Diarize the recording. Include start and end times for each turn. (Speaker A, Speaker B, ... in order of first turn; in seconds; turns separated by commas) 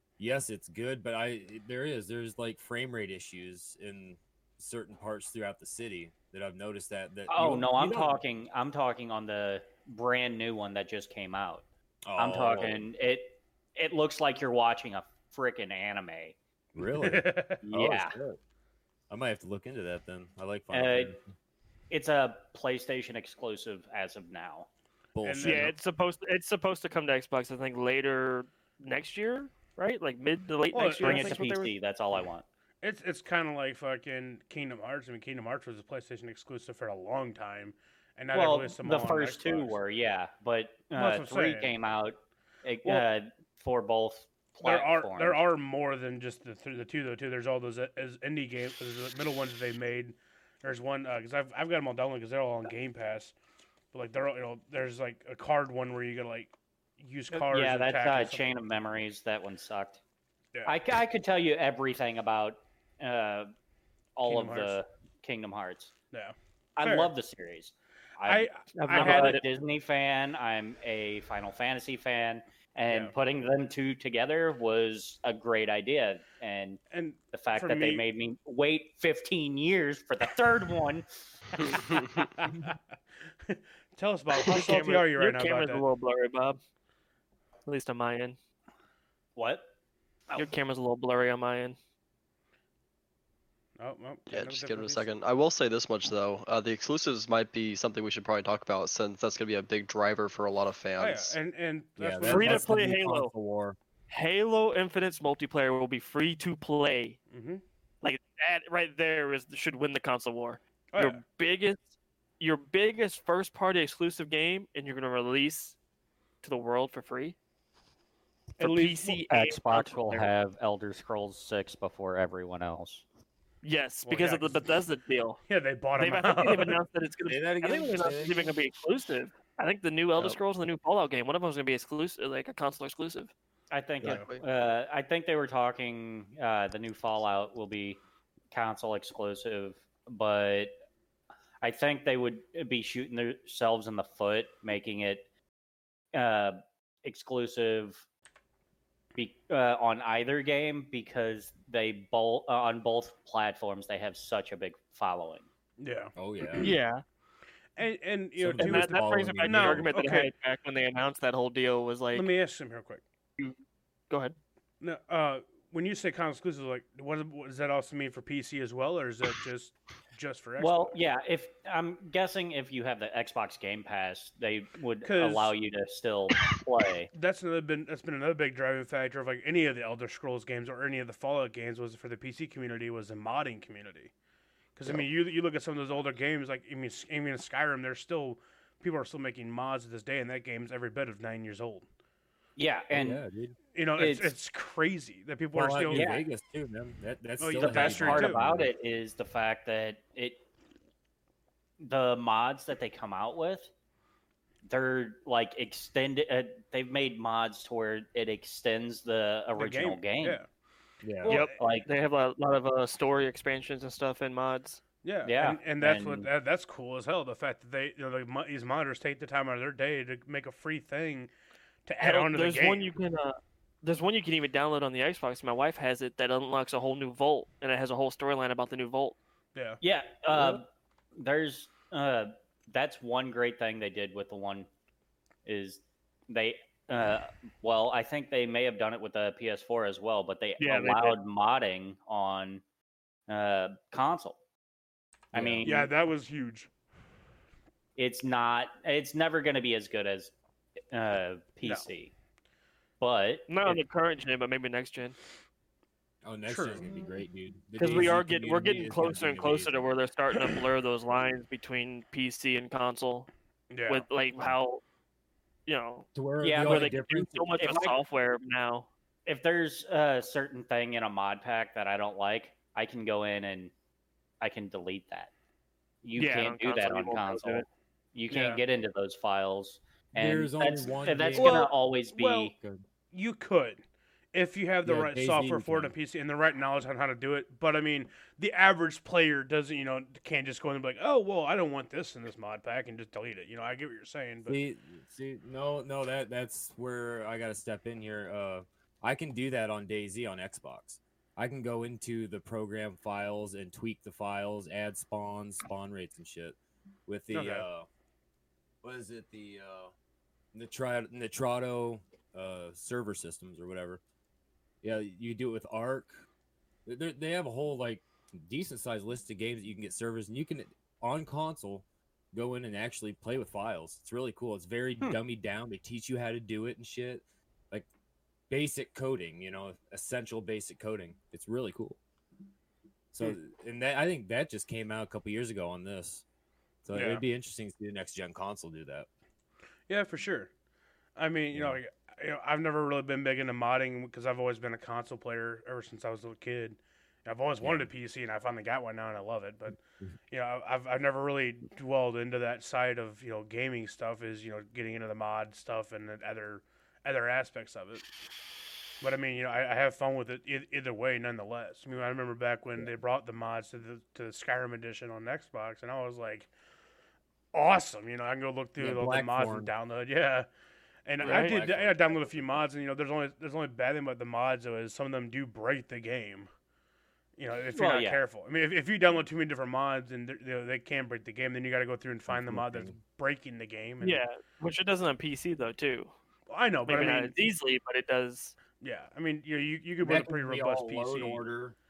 Speaker A: 0.2-8.2, Speaker B: 7.3-11.6, Speaker A: 12.0-12.9, Speaker B: 12.2-16.4, Speaker A: 16.7-18.4, Speaker C: 16.8-17.6, Speaker B: 17.6-18.1, Speaker A: 19.1-21.3, Speaker B: 20.7-21.1, Speaker B: 21.9-24.7, Speaker A: 25.1-25.7, Speaker C: 25.2-25.7, Speaker D: 25.4-31.7, Speaker C: 30.7-31.4, Speaker B: 31.0-32.4, Speaker C: 32.8-39.8, Speaker B: 38.3-45.4, Speaker C: 41.0-41.7, Speaker C: 44.6-53.3, Speaker C: 53.9-58.5, Speaker B: 57.3-60.0, Speaker B: 60.6-63.5, Speaker B: 64.2-65.9, Speaker C: 64.2-64.8, Speaker C: 66.1-67.1, Speaker B: 66.8-76.8, Speaker C: 68.2-69.4, Speaker D: 68.8-69.4, Speaker C: 76.9-78.0, Speaker B: 77.3-81.0, Speaker C: 81.9-82.8, Speaker C: 83.5-85.8, Speaker D: 84.4-86.6, Speaker D: 87.7-88.3, Speaker B: 89.3-89.7, Speaker D: 90.3-91.8, Speaker C: 93.8-95.0, Speaker E: 94.3-101.3, Speaker C: 101.0-102.7, Speaker A: 102.0-103.8, Speaker D: 102.2-103.3, Speaker D: 104.1-107.2, Speaker C: 107.3-107.6, Speaker D: 108.0-115.7, Speaker C: 110.9-111.2, Speaker D: 116.4-117.3, Speaker C: 118.6-119.3, Speaker D: 118.6-120.0, Speaker B: 119.3-123.0, Speaker D: 123.6-125.4, Speaker C: 124.0-124.6, Speaker C: 125.5-126.8, Speaker D: 126.0-133.3, Speaker A: 127.2-128.5, Speaker B: 133.7-138.0, Speaker E: 134.0-134.4, Speaker B: 138.5-140.7, Speaker B: 141.6-145.2, Speaker B: 146.1-148.0, Speaker B: 149.2-155.5, Speaker C: 155.8-156.1, Speaker A: 156.2-156.8, Speaker D: 156.6-157.0, Speaker C: 157.8-160.3, Speaker A: 158.4-159.9, Speaker D: 158.6-162.3, Speaker C: 162.1-163.0, Speaker D: 164.1-164.3, Speaker C: 164.8-171.0, Speaker B: 170.6-177.1, Speaker C: 175.0-175.5, Speaker C: 177.1-184.1, Speaker C: 184.8-191.8, Speaker B: 192.6-193.2, Speaker A: 192.9-193.6, Speaker C: 193.7-196.1, Speaker B: 194.0-194.3, Speaker A: 195.5-198.7, Speaker B: 195.9-196.2, Speaker C: 197.4-198.4, Speaker B: 197.6-200.4, Speaker B: 201.8-203.7, Speaker B: 204.6-210.4, Speaker C: 209.6-210.5, Speaker A: 211.0-211.3, Speaker C: 211.2-211.5, Speaker D: 211.3-214.8, Speaker B: 211.5-211.9, Speaker C: 215.0-221.3, Speaker B: 215.2-216.3, Speaker C: 221.8-222.8, Speaker D: 222.0-229.2, Speaker C: 229.5-229.8, Speaker B: 229.8-234.7, Speaker B: 235.4-242.6, Speaker D: 240.6-241.2, Speaker B: 243.3-244.4, Speaker A: 245.3-245.7, Speaker B: 245.3-245.9, Speaker C: 245.6-246.7, Speaker B: 248.0-250.3, Speaker B: 250.9-252.1, Speaker B: 253.0-253.8, Speaker D: 253.5-255.2, Speaker A: 256.2-259.9, Speaker C: 256.5-256.9, Speaker D: 257.8-263.3, Speaker C: 263.7-264.0, Speaker D: 263.9-264.8, Speaker D: 265.7-268.9, Speaker A: 266.1-267.6, Speaker B: 266.4-266.9, Speaker B: 267.6-268.0, Speaker B: 269.2-273.7, Speaker B: 274.4-275.3, Speaker B: 276.0-282.5, Speaker D: 276.2-277.7, Speaker C: 278.3-278.6, Speaker A: 280.1-281.6, Speaker C: 281.3-282.5, Speaker A: 282.5-282.8, Speaker C: 283.1-294.6, Speaker A: 284.8-285.9, Speaker A: 294.4-307.9, Speaker C: 307.3-307.6, Speaker A: 308.8-309.9, Speaker A: 310.5-314.0, Speaker A: 314.8-316.2, Speaker A: 316.9-327.9, Speaker A: 328.5-332.0, Speaker A: 333.1-336.2, Speaker A: 336.8-339.1, Speaker C: 336.9-337.2, Speaker C: 339.9-340.5, Speaker C: 341.2-358.1, Speaker A: 341.5-341.8, Speaker A: 347.6-347.9, Speaker C: 359.0-366.5, Speaker C: 367.5-370.5, Speaker A: 368.8-369.7, Speaker C: 371.1-376.5, Speaker A: 371.2-372.5, Speaker D: 371.2-371.6, Speaker C: 377.4-384.2, Speaker B: 377.7-378.2, Speaker A: 382.3-383.0, Speaker D: 384.0-386.1, Speaker C: 386.5-387.3, Speaker D: 386.9-388.5, Speaker C: 388.8-391.4, Speaker A: 390.0-391.8